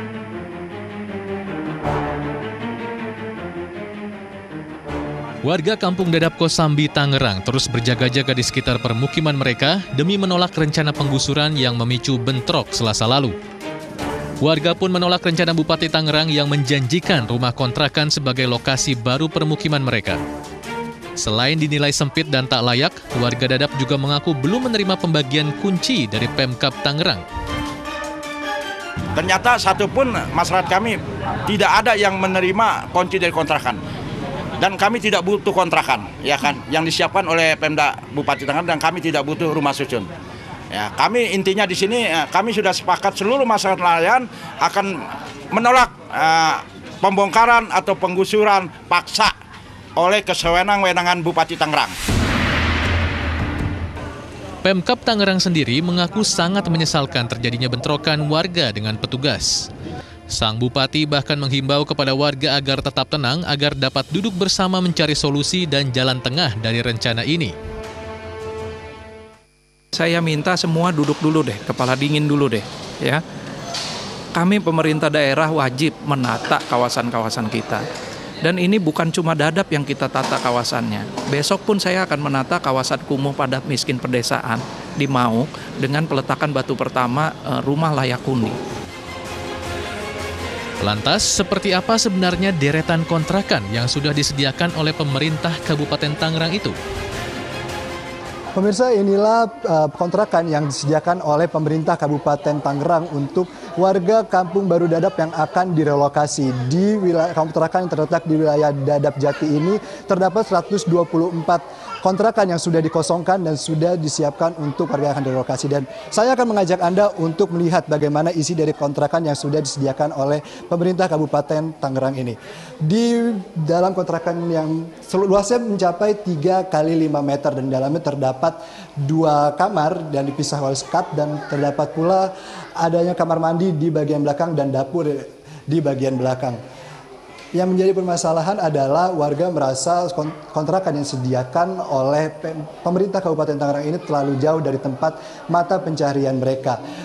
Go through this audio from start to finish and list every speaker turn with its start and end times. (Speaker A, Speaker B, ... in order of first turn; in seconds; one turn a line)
Speaker A: 5.4-13.3
Speaker A: 14.4-20.2
Speaker A: 21.2-27.2
Speaker B: 29.1-33.8
Speaker B: 34.6-40.1
Speaker B: 40.7-45.0
Speaker B: 45.5-49.3
Speaker B: 50.0-51.9
Speaker A: 54.6-59.7
Speaker A: 60.3-67.5
Speaker C: 69.9-73.2
Speaker C: 74.3-77.8
Speaker C: 78.4-88.6
Speaker A: 90.8-96.8
Speaker D: 98.5-136.6
Speaker D: 137.5-146.8